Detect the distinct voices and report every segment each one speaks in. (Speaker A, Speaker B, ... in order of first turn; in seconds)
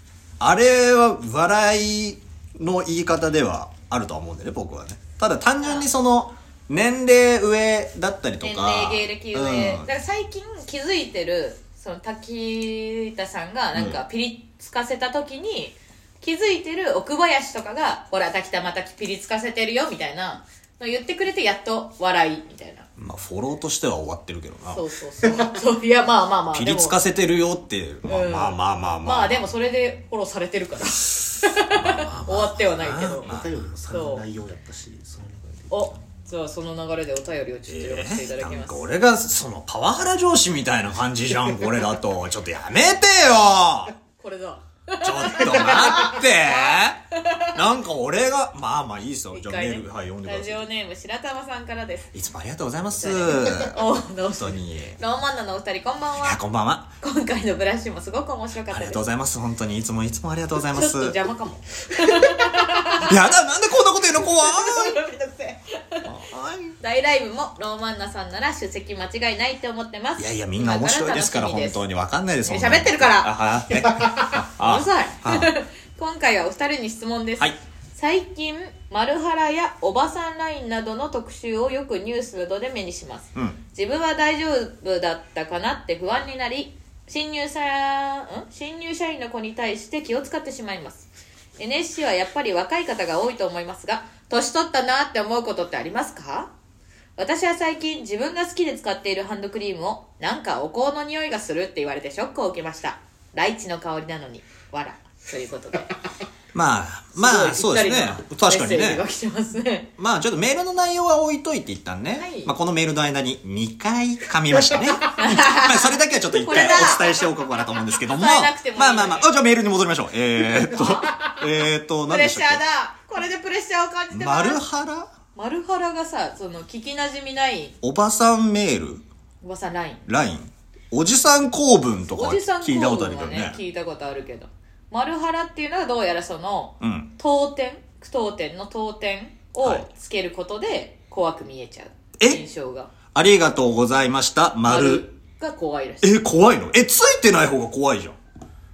Speaker A: 0.4-9.9, 13.7-14.0, 23.0-24.8, 26.5-29.5, 31.6-33.6, 37.7-44.0, 45.0-50.6, 52.1-53.8, 54.3-55.0, 56.2-56.9, 58.7-61.2, 63.0-65.0, 66.0-66.8, 70.2-75.5, 106.5-109.1, 110.0-122.6, 124.1-125.1, 127.8-129.0, 130.1-133.6, 136.8-137.1, 139.6-139.9, 143.1-145.1, 146.0-148.2
Speaker B: 5.6-5.9, 8.4-22.9, 24.7-27.0, 28.1-33.3, 33.9-34.3, 35.7-38.9, 44.2-47.6, 49.3-52.1, 53.0-56.4, 57.0-59.0, 60.6-63.3, 64.2-66.1, 66.8-71.8, 72.4-96.5, 97.2-106.0, 107.2-109.9, 112.2-112.5, 115.2-117.3, 118.1-119.3, 120.6-121.3, 122.1-124.6, 125.3-127.8, 129.4-130.1, 132.1-142.9, 144.6-146.2
Speaker C: 33.2-36.0